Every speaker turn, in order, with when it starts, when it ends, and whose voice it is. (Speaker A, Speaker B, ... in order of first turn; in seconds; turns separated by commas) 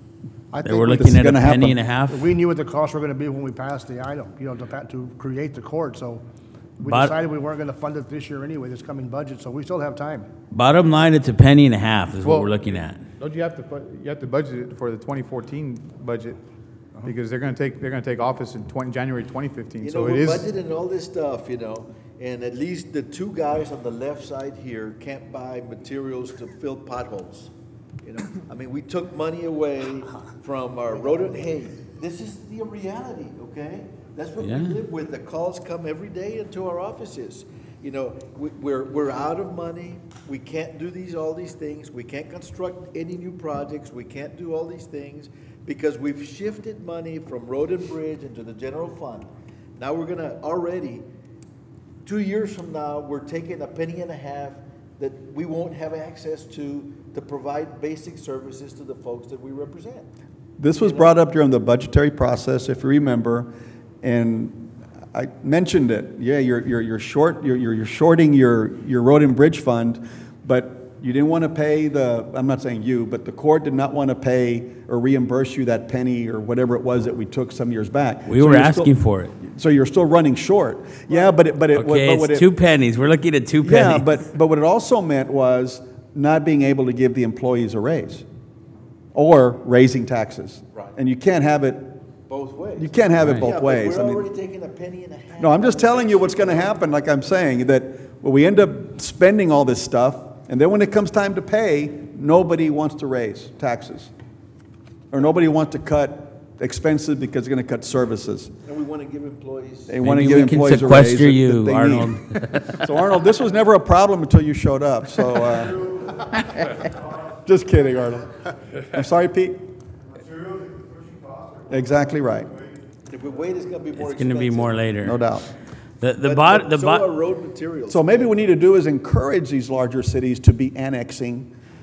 Speaker A: 0.5-1.0, Speaker B: 0.6-2.3, Speaker C: 0.9-1.8, Speaker A: 2.1-6.2, Speaker A: 6.8-10.3, Speaker B: 6.8-7.2, Speaker B: 10.5-13.0, Speaker D: 12.2-16.4, Speaker D: 17.0-20.5, Speaker E: 19.8-27.5, Speaker E: 28.0-51.0, Speaker B: 34.4-34.8, Speaker E: 52.0-60.1, Speaker C: 60.6-63.5, Speaker E: 60.8-61.2, Speaker C: 64.0-82.5, Speaker B: 78.3-79.3, Speaker E: 81.1-81.4, Speaker B: 81.7-84.1, Speaker C: 83.6-88.3, Speaker C: 89.2-92.0, Speaker E: 92.3-96.8, Speaker C: 92.8-94.3, Speaker B: 93.2-93.5, Speaker C: 95.4-104.1, Speaker C: 105.1-108.5, Speaker E: 108.7-110.2, Speaker C: 109.9-112.2, Speaker B: 110.0-112.8, Speaker C: 112.7-116.1, Speaker C: 117.3-119.6, Speaker C: 121.7-122.5, Speaker E: 123.1-124.8, Speaker B: 124.0-125.2, Speaker C: 125.0-125.5, Speaker B: 126.0-127.1, Speaker E: 126.2-128.4, Speaker C: 127.9-131.5